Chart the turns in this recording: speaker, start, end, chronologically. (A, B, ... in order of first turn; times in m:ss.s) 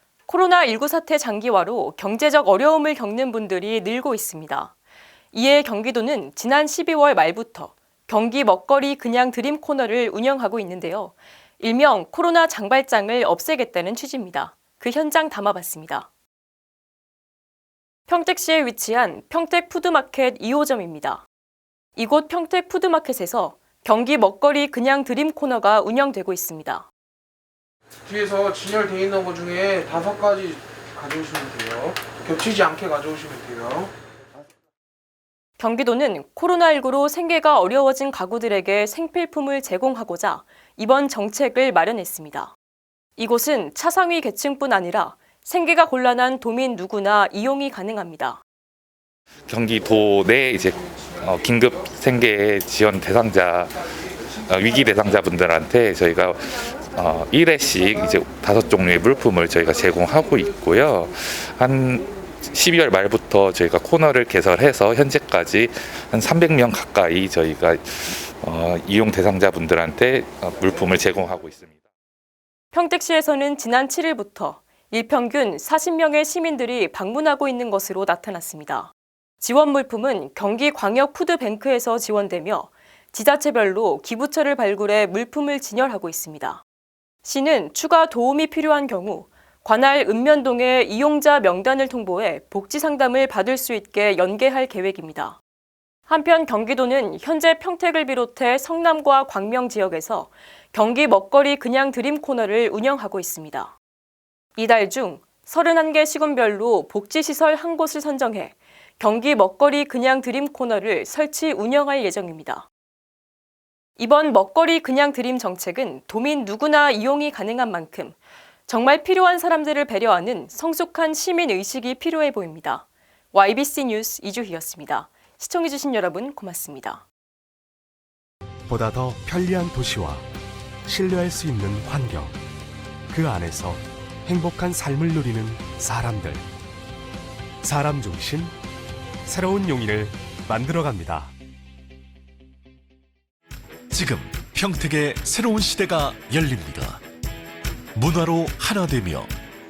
0:00.3-0:04.7 A
0:05.3-0:16.1 A
0:18.1-0:21.3 A
0:22.0-0:26.9 A
0:28.1-0:33.9 B
0:35.6-0:42.6 A
0:43.2-0:48.4 A
0:49.5-1:11.8 C
1:12.7-1:26.6 A
1:27.2-1:35.4 A
1:36.1-1:43.8 A
1:44.6-1:52.7 A
1:54.0-2:07.0 A
2:08.7-2:10.3 D
2:10.9-2:12.4 D
2:13.1-2:16.5 D
2:17.6-2:18.6 D
2:19.3-2:21.3 D
2:23.9-2:27.0 E
2:28.0-2:29.3 E